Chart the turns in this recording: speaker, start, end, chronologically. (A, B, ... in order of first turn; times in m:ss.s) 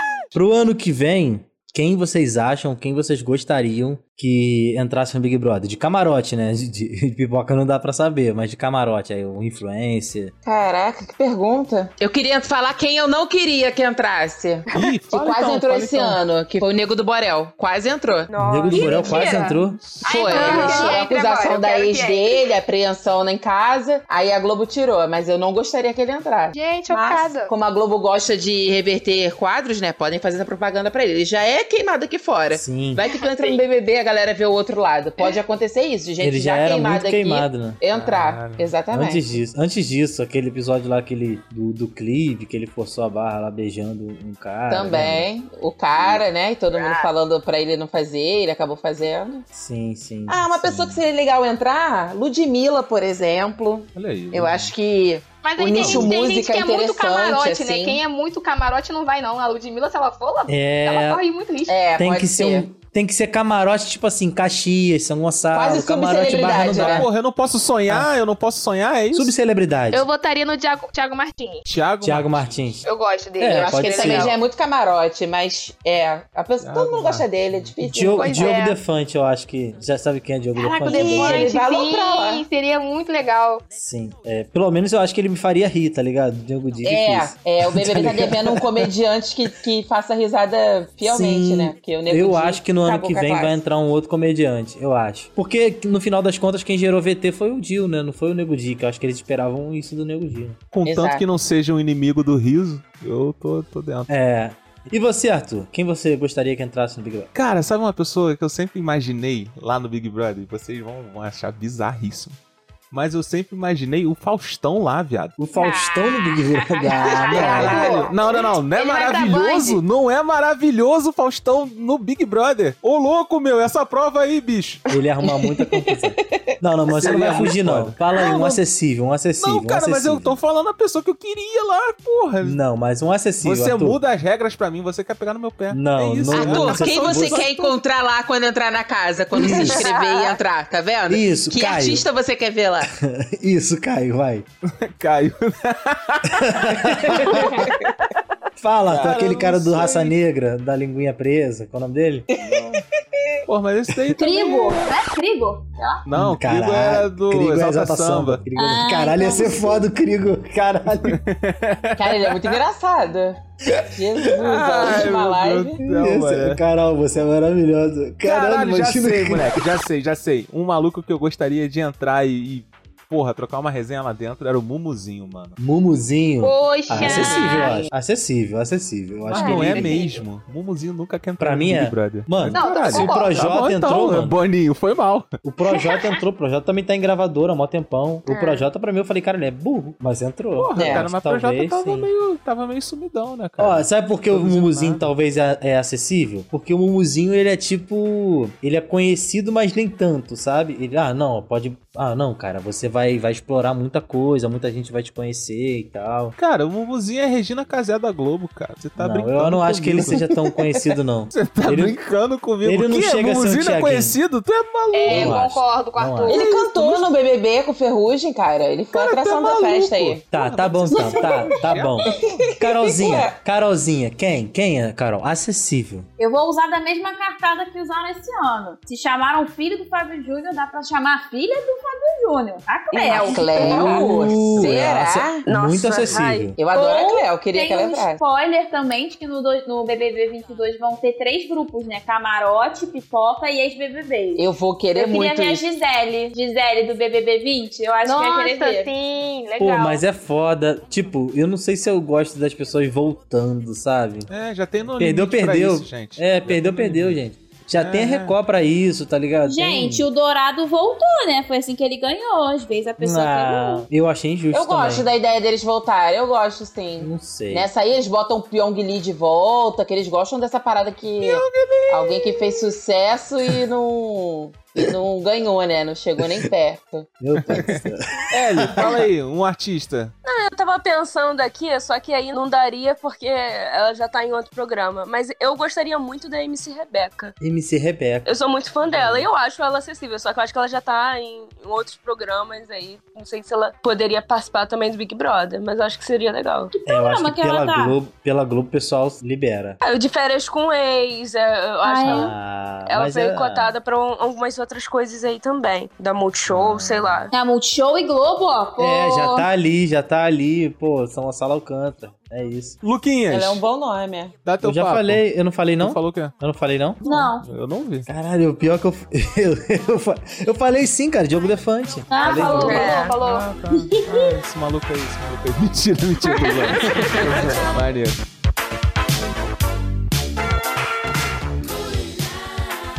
0:00.3-0:10.3 A
0:10.4-0:18.3 B
0:14.7-0:16.2 C
0:18.3-0:19.4 D
0:18.4-0:19.8 A
0:18.7-0:22.5 E
0:19.9-0:20.3 C
0:20.0-0:39.3 B
0:20.3-0:21.0 F
0:26.5-0:27.5 E
0:32.5-0:33.0 A
0:33.2-0:33.6 E
0:36.2-0:37.8 A
0:37.9-0:38.7 C
0:38.9-0:45.3 A
0:44.7-0:49.5 B
0:46.7-0:47.1 E
0:49.5-0:51.0 A
0:50.3-0:58.0 B
0:54.0-0:54.7 C
0:55.4-1:01.8 E
0:55.8-0:56.1 C
1:00.5-1:01.2 A
1:01.7-1:02.6 B
1:02.0-1:07.1 A
1:05.5-1:07.1 B
1:06.3-1:09.3 C
1:09.1-1:10.1 A
1:09.9-1:11.6 E
1:11.7-1:12.8 C
1:12.0-1:12.8 A
1:12.9-1:14.4 E
1:13.4-1:14.3 A
1:13.9-1:18.6 B
1:16.6-1:17.7 C
1:17.9-1:21.5 A
1:18.1-1:18.8 E
1:20.6-1:21.5 F
1:20.8-1:23.6 E
1:21.0-1:22.4 B
1:23.7-1:28.9 A
1:26.8-1:33.6 B
1:31.0-1:40.6 A
1:40.7-1:44.1 C
1:40.8-1:41.2 B
1:44.1-1:47.3 A
1:47.3-1:52.4 C
1:52.9-1:55.4 C
1:55.4-1:58.0 A
1:55.6-1:58.1 F
1:57.2-1:58.2 E
1:57.3-1:58.1 B
1:57.4-2:04.8 C
1:58.7-1:59.8 E
2:04.9-2:10.4 A
2:05.2-2:06.2 B
2:07.0-2:08.6 C
2:07.0-2:07.5 B
2:09.4-2:12.6 C
2:12.4-2:14.0 A
2:13.4-2:17.7 C
2:15.7-2:17.5 A
2:16.3-2:22.9 B
2:19.4-2:19.9 A
2:19.4-2:20.4 E
2:21.1-2:22.1 A
2:22.9-2:24.5 A
2:24.7-2:27.7 C
2:26.4-2:27.7 A
2:28.6-2:32.3 A
2:28.9-2:30.2 C
2:32.4-2:32.7 B
2:32.4-2:32.8 C
2:33.5-2:34.9 C
2:34.2-2:36.0 F
2:36.1-2:38.4 C
2:36.1-2:41.2 A
2:38.6-2:39.8 F
2:41.0-2:42.6 C
2:42.0-2:45.8 B
2:44.3-2:46.6 C
2:45.8-2:49.6 A
2:48.2-2:55.6 C
2:55.6-3:00.0 A
2:56.4-2:57.9 E
2:57.0-2:57.9 F
2:59.3-3:05.3 C
3:01.4-3:04.3 A
3:02.5-3:03.5 E
3:05.4-3:12.1 A
3:08.3-3:08.6 F
3:10.6-3:15.1 C
3:10.8-3:11.0 B
3:13.6-3:26.4 A
3:26.4-3:30.2 C
3:29.0-3:32.0 A
3:31.4-3:35.4 C
3:32.6-3:34.2 A
3:34.9-3:36.5 E
3:35.1-3:36.4 A
3:36.3-3:40.2 B
3:36.4-3:37.0 C
3:38.9-3:42.5 C
3:40.3-3:46.1 A
3:40.9-3:41.5 F
3:42.1-3:43.4 B
3:46.2-3:53.9 F
3:52.9-3:54.0 D
3:53.1-3:55.4 B
3:53.6-3:56.6 A
3:55.4-3:56.5 D
3:56.6-3:58.2 B
3:56.7-4:08.9 F
4:04.4-4:05.6 B
4:08.0-4:10.0 E
4:09.6-4:14.3 A
4:14.3-4:17.2 C
4:15.0-4:20.1 A
4:17.8-4:18.4 C
4:19.4-4:23.9 F
4:23.0-4:25.1 A
4:24.5-4:37.1 B
4:27.0-4:27.7 A
4:31.2-4:32.8 C
4:37.2-4:38.9 A
4:37.5-4:40.1 C
4:40.2-4:47.3 D
4:47.4-4:48.3 A
4:48.3-4:56.8 D
4:48.9-4:49.3 C
4:56.7-4:58.0 F
4:56.8-4:59.8 A
4:59.8-5:02.4 D
5:01.8-5:02.3 F
5:02.0-5:03.7 A
5:02.9-5:07.3 D
5:06.5-5:07.3 A
5:07.3-5:09.5 F
5:08.8-5:12.8 A
5:12.8-5:13.6 C
5:13.3-5:14.3 B
5:14.4-5:15.2 C
5:14.6-5:17.0 A
5:15.8-5:16.3 C
5:17.0-5:18.1 C
5:17.0-5:17.4 F
5:18.1-5:22.9 A
5:22.1-5:23.1 F
5:22.2-5:23.5 E
5:22.4-5:23.2 B
5:22.6-5:28.2 C
5:23.7-5:24.4 F
5:26.3-5:27.2 D